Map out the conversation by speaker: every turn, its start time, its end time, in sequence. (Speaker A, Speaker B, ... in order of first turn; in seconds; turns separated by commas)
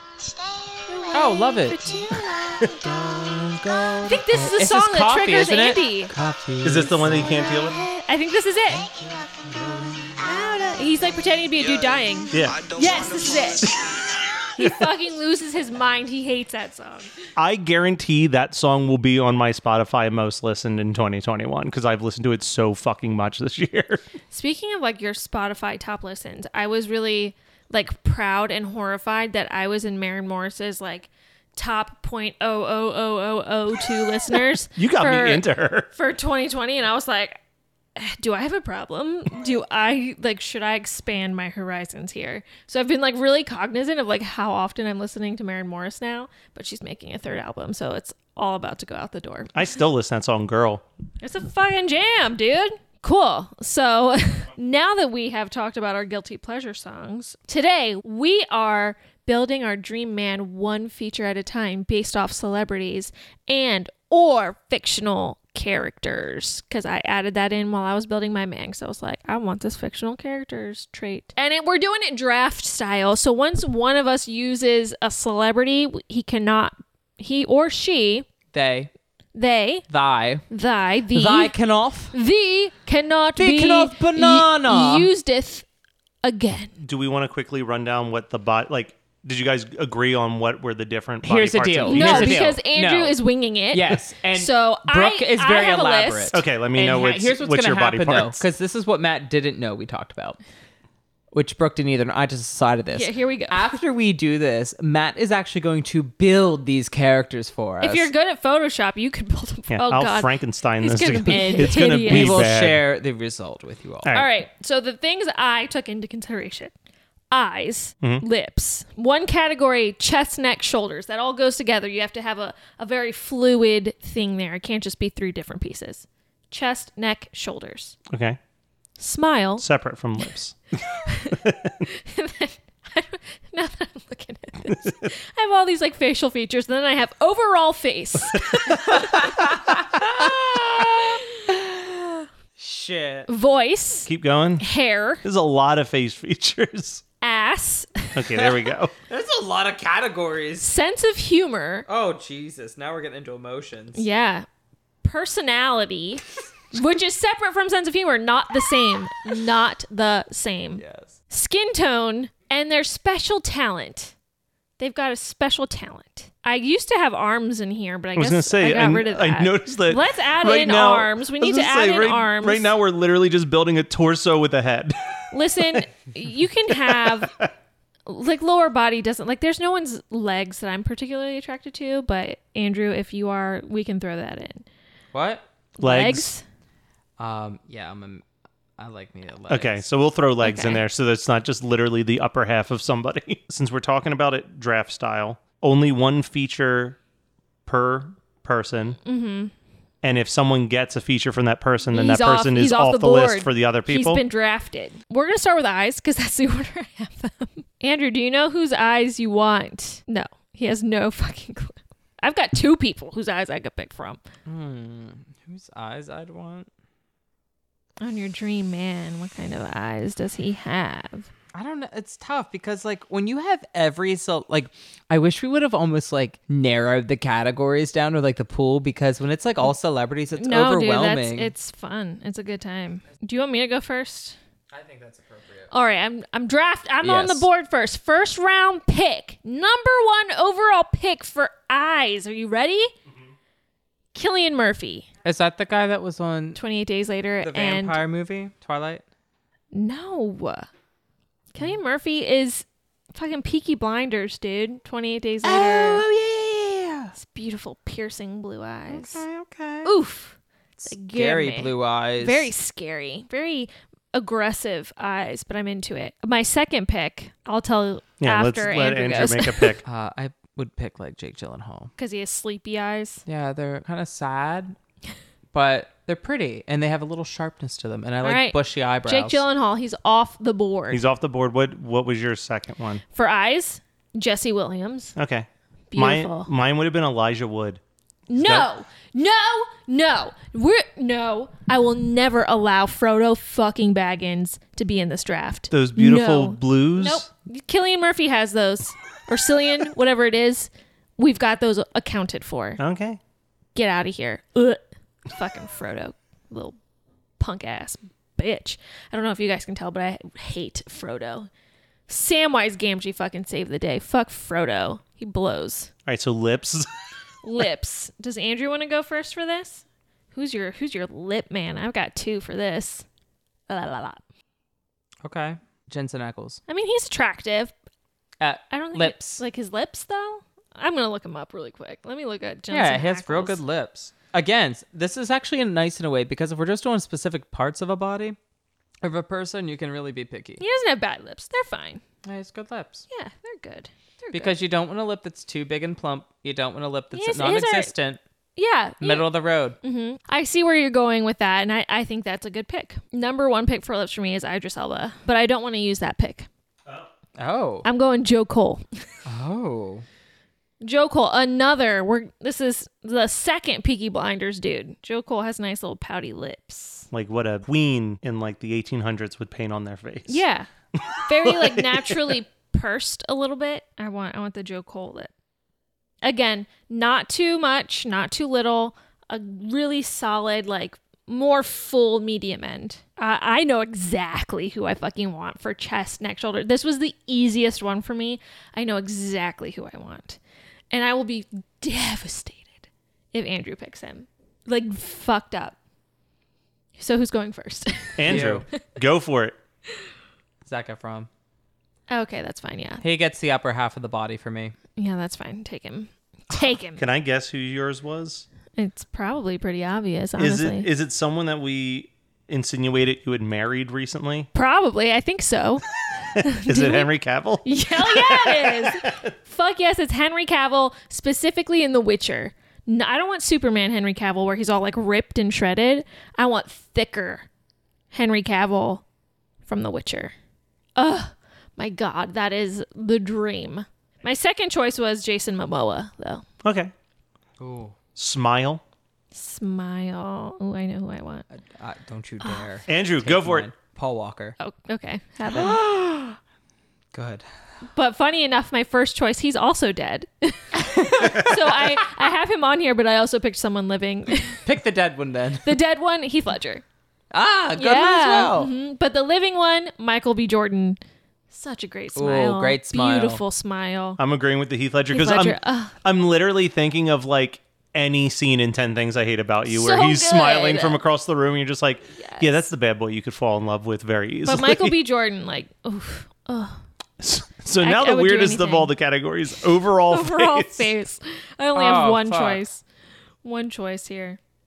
Speaker A: 0.8-2.8, Speaker B: 1.1-2.0, Speaker B: 2.6-7.3, Speaker A: 4.0-6.1, Speaker C: 6.6-7.8, Speaker A: 7.7-8.9, Speaker B: 8.8-10.2, Speaker A: 10.2-13.7, Speaker C: 12.3-12.6, Speaker A: 14.6-17.1, Speaker C: 17.4-24.0, Speaker A: 24.3-37.4, Speaker C: 34.8-35.9, Speaker A: 38.0-49.5, Speaker C: 49.5-50.8, Speaker A: 51.2-78.2, Speaker B: 78.5-78.9, Speaker A: 79.3-79.8, Speaker B: 79.9-80.5, Speaker A: 80.5-81.5, Speaker B: 81.1-82.1, Speaker A: 82.1-85.6, Speaker B: 83.3-85.1, Speaker A: 86.2-86.7, Speaker C: 86.8-92.5, Speaker B: 91.2-93.2, Speaker A: 91.9-96.4, Speaker B: 93.7-100.4, Speaker C: 96.3-98.4, Speaker B: 101.3-108.1, Speaker A: 102.9-103.7, Speaker A: 107.8-112.5, Speaker C: 109.7-112.8, Speaker B: 111.3-114.2, Speaker C: 114.0-114.3, Speaker A: 114.1-116.7, Speaker A: 117.3-128.0, Speaker C: 128.1-128.4, Speaker A: 129.0-129.6, Speaker C: 129.6-130.5, Speaker A: 131.0-139.4, Speaker C: 131.3-131.8, Speaker B: 138.8-141.2, Speaker A: 141.0-142.0, Speaker B: 142.6-143.3, Speaker A: 143.3-145.2, Speaker C: 144.1-144.6, Speaker C: 145.2-147.0, Speaker A: 147.2-148.2, Speaker C: 148.1-148.9, Speaker B: 149.1-150.7, Speaker A: 150.6-151.8, Speaker B: 151.9-154.1, Speaker A: 153.9-154.4, Speaker A: 155.0-164.1, Speaker B: 160.8-161.2, Speaker A: 164.8-172.7, Speaker C: 168.2-175.2, Speaker A: 175.3-177.4, Speaker C: 176.7-177.3, Speaker A: 178.1-184.6, Speaker B: 185.1-185.4, Speaker A: 185.8-186.4, Speaker C: 185.8-186.3, Speaker B: 187.2-188.2, Speaker B: 188.8-189.8, Speaker C: 189.5-197.0, Speaker A: 190.4-190.8, Speaker C: 197.7-199.0, Speaker A: 199.0-199.5, Speaker C: 200.0-204.2, Speaker A: 201.9-214.2, Speaker B: 214.4-216.7, Speaker A: 218.0-221.3, Speaker B: 221.5-231.5, Speaker A: 230.4-234.4, Speaker B: 234.7-235.7, Speaker A: 235.7-242.9, Speaker B: 237.0-237.5, Speaker A: 244.1-245.1, Speaker B: 245.2-246.6, Speaker A: 246.6-248.0, Speaker B: 247.4-249.0, Speaker A: 249.7-250.7, Speaker A: 251.5-256.0, Speaker B: 255.4-257.1, Speaker A: 257.1-259.2, Speaker B: 258.9-259.9, Speaker A: 259.8-260.4, Speaker B: 260.8-262.5, Speaker A: 260.9-269.8, Speaker C: 268.2-269.8, Speaker B: 269.8-271.9, Speaker A: 272.0-273.2, Speaker B: 273.2-274.7, Speaker B: 275.5-279.4, Speaker A: 278.2-281.0, Speaker C: 280.9-283.0, Speaker A: 283.1-285.1, Speaker C: 285.1-287.8, Speaker A: 285.9-286.5, Speaker A: 288.3-302.8, Speaker C: 288.4-288.7, Speaker C: 295.7-297.3, Speaker C: 302.8-303.2, Speaker A: 303.7-306.8, Speaker A: 307.4-311.5, Speaker A: 312.1-315.9, Speaker C: 316.1-316.9, Speaker A: 317.4-323.1, Speaker A: 323.7-324.2, Speaker B: 325.2-326.6, Speaker A: 326.7-327.7, Speaker B: 328.4-329.4, Speaker A: 328.7-333.6, Speaker B: 332.7-338.4, Speaker B: 339.0-340.6, Speaker A: 340.6-342.0, Speaker B: 342.2-343.0, Speaker A: 343.1-344.5, Speaker B: 344.3-348.2, Speaker A: 347.1-347.9, Speaker A: 348.6-349.3, Speaker B: 349.0-349.8, Speaker A: 349.8-356.5, Speaker B: 357.4-357.9, Speaker A: 357.8-359.1, Speaker B: 359.2-360.0, Speaker A: 360.8-367.1, Speaker C: 367.1-370.4, Speaker A: 370.3-370.7, Speaker C: 370.9-372.4, Speaker A: 371.2-375.3, Speaker A: 376.2-390.4, Speaker A: 390.9-395.8, Speaker A: 396.9-398.6, Speaker C: 398.2-399.6, Speaker B: 398.3-398.6, Speaker B: 400.6-401.3, Speaker A: 402.1-403.0, Speaker B: 403.0-404.7, Speaker A: 404.9-407.0, Speaker C: 406.9-408.4, Speaker A: 408.7-410.9, Speaker C: 410.4-414.5, Speaker A: 414.5-417.1, Speaker C: 416.6-419.2, Speaker A: 417.6-427.5, Speaker A: 428.1-429.0, Speaker A: 429.6-430.3, Speaker A: 430.9-436.4, Speaker C: 436.6-436.9, Speaker B: 437.6-437.9, Speaker C: 438.1-438.8, Speaker A: 439.3-441.4, Speaker B: 441.8-444.6, Speaker A: 442.4-442.7, Speaker C: 442.9-443.7, Speaker A: 444.6-445.9, Speaker B: 445.5-446.3, Speaker B: 447.1-447.4, Speaker A: 447.9-454.6, Speaker B: 451.1-452.0, Speaker B: 454.6-455.8, Speaker A: 455.6-456.8, Speaker B: 457.3-458.7, Speaker A: 457.8-461.0, Speaker A: 461.5-464.2, Speaker B: 462.1-463.4, Speaker C: 464.2-474.9, Speaker A: 465.1-465.9, Speaker A: 469.7-471.0, Speaker A: 472.2-472.6, Speaker A: 474.4-476.8, Speaker C: 477.2-480.9, Speaker A: 477.8-478.9, Speaker A: 480.1-482.8, Speaker B: 481.7-482.6, Speaker A: 483.4-484.4